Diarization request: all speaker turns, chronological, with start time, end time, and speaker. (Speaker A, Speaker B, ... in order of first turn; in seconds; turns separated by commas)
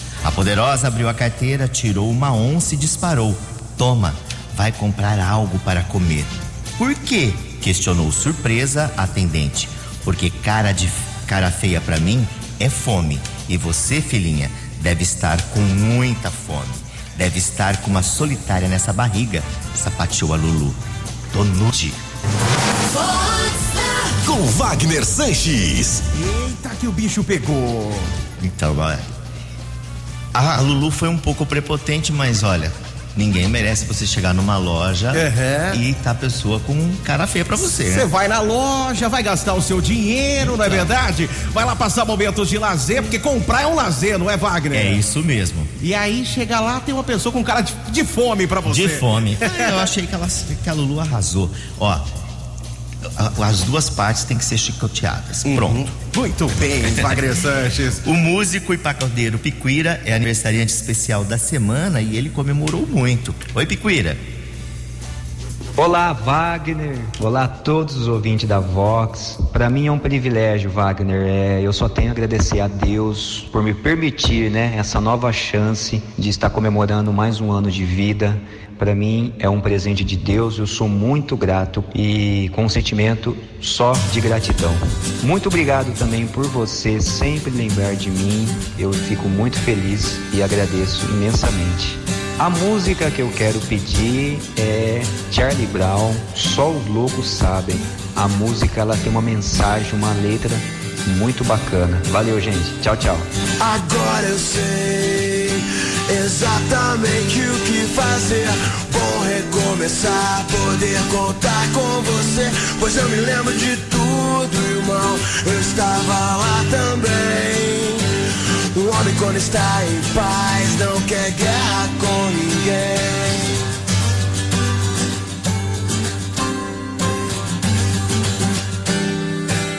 Speaker A: 0.2-20.8, Speaker A: 21.3-22.0, Speaker B: 23.3-26.0, Speaker C: 26.1-28.1, Speaker A: 28.4-29.1, Speaker A: 30.3-38.1, Speaker C: 35.1-35.8, Speaker C: 37.7-45.0, Speaker A: 40.5-40.9, Speaker A: 44.7-45.7, Speaker C: 45.8-49.9, Speaker A: 48.6-52.0, Speaker A: 53.2-55.9, Speaker C: 55.4-58.0, Speaker A: 58.0-64.2, Speaker D: 65.8-103.3, Speaker E: 104.1-105.2, Speaker E: 107.0-108.3, Speaker E: 109.1-111.2, Speaker E: 111.8-112.3, Speaker E: 112.9-115.1, Speaker E: 115.6-117.8, Speaker E: 119.0-123.2